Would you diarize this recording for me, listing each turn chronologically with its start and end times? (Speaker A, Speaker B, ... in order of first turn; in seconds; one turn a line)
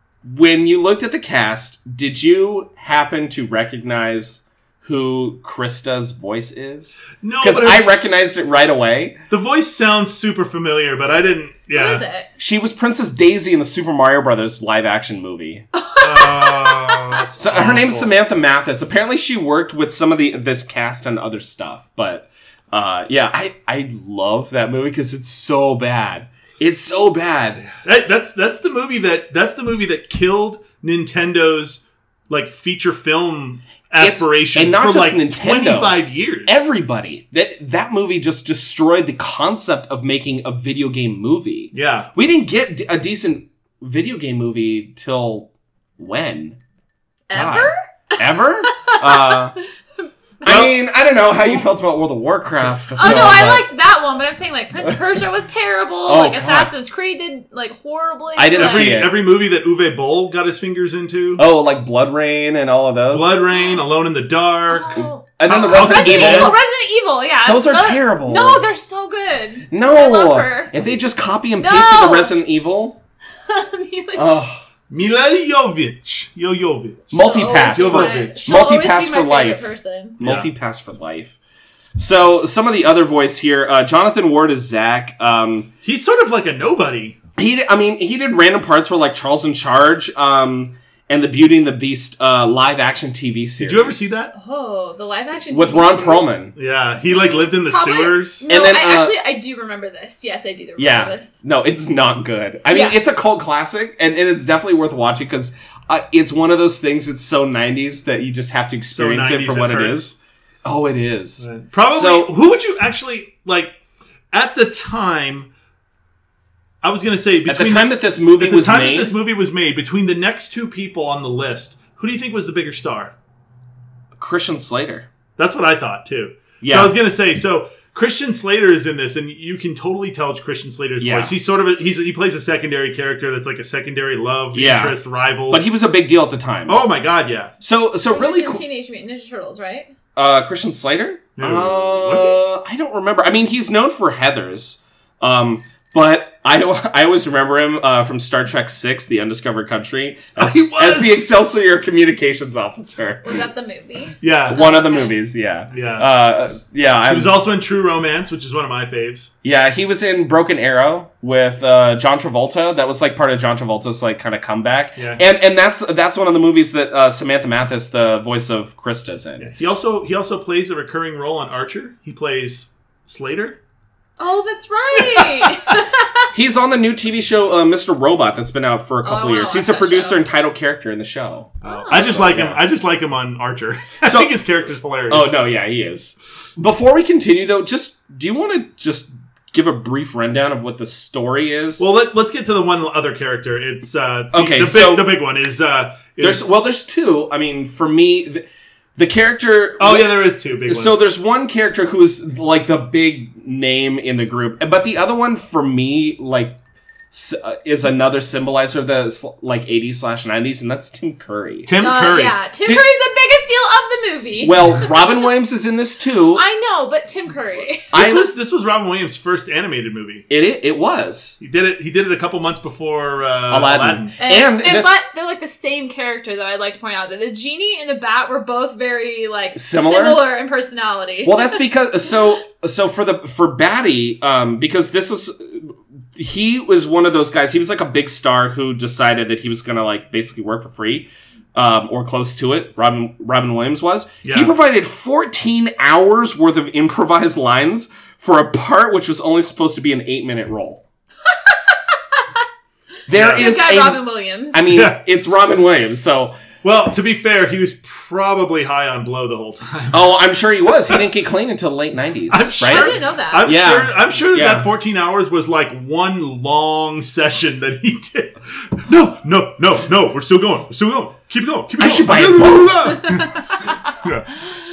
Speaker A: 0.2-9.2
Speaker B: 7.2-7.9
Speaker B: 9.3-12.0
Speaker C: 11.7-12.3
Speaker A: 12.4-15.7
Speaker C: 15.7-17.2
Speaker B: 16.0-18.1
Speaker A: 17.4-27.7
Speaker B: 27.7-36.6
Speaker A: 34.0-46.6
Speaker B: 41.7-42.1
Speaker C: 47.3-49.5
Speaker A: 47.3-49.5
Speaker C: 50.0-50.6
Speaker A: 50.4-53.6
Speaker B: 50.4-50.8
Speaker C: 53.0-59.0
Speaker B: 53.0-53.3
Speaker A: 56.0-56.7
Speaker A: 58.4-59.1
Speaker B: 58.6-61.4
Speaker A: 61.4-63.3
Speaker B: 63.1-66.5
Speaker C: 64.7-70.7
Speaker A: 65.0-66.5
Speaker A: 67.4-68.6
Speaker A: 69.7-73.0
Speaker C: 71.6-72.3
Speaker C: 73.5-74.3
Speaker A: 74.1-74.6
Speaker B: 74.9-78.5
Speaker A: 77.1-79.7
Speaker C: 77.2-80.2
Speaker A: 80.2-81.3
Speaker B: 80.2-80.5
Speaker A: 82.0-85.7
Speaker B: 85.8-87.2
Speaker A: 87.4-94.1
Speaker B: 93.6-94.3
Speaker C: 94.3-96.3
Speaker A: 95.5-96.5
Speaker B: 96.5-98.5
Speaker C: 97.1-101.4
Speaker A: 98.5-99.1
Speaker A: 100.8-112.3
Speaker C: 102.7-103.0
Speaker B: 108.9-110.1
Speaker B: 111.4-113.7
Speaker B: 114.3-115.5
Speaker B: 116.8-123.1
Speaker A: 117.5-119.1
Speaker A: 124.2-125.1
Speaker B: 125.4-135.6
Speaker A: 126.6-126.9
Speaker A: 131.0-131.3
Speaker A: 134.5-136.8
Speaker B: 136.7-137.5
Speaker A: 137.6-138.6
Speaker C: 138.1-139.9
Speaker A: 140.2-153.4
Speaker B: 141.4-142.4
Speaker B: 150.4-151.3
Speaker C: 153.2-155.2
Speaker B: 154.2-154.6
Speaker A: 154.5-157.3
Speaker B: 155.7-156.1
Speaker B: 157.1-159.3
Speaker A: 159.4-169.5
Speaker B: 164.9-165.2
Speaker B: 169.4-173.6
Speaker C: 174.2-176.3
Speaker A: 176.3-182.6
Speaker C: 179.0-180.2
Speaker B: 181.6-185.3
Speaker C: 181.6-182.0
Speaker A: 184.0-184.3
Speaker A: 185.1-191.8
Speaker B: 191.8-196.4
Speaker A: 194.3-195.1
Speaker A: 196.2-198.4
Speaker A: 199.0-200.1
Speaker B: 199.8-201.0
Speaker A: 200.7-206.6
Speaker A: 207.1-211.7
Speaker B: 211.7-212.4
Speaker C: 211.8-215.0
Speaker A: 214.4-216.4
Speaker C: 216.3-217.8
Speaker A: 217.9-218.3
Speaker B: 217.9-220.2
Speaker A: 220.3-221.4
Speaker B: 221.4-224.1
Speaker A: 223.5-224.9
Speaker C: 224.2-231.6
Speaker A: 229.5-230.2
Speaker A: 231.2-250.8
Speaker B: 244.2-244.5
Speaker A: 253.1-256.4
Speaker B: 253.1-253.5
Speaker C: 253.2-254.6
Speaker B: 254.7-255.0
Speaker B: 256.6-260.2
Speaker A: 259.9-264.7
Speaker B: 262.3-274.3
Speaker C: 262.6-263.5
Speaker A: 271.8-273.1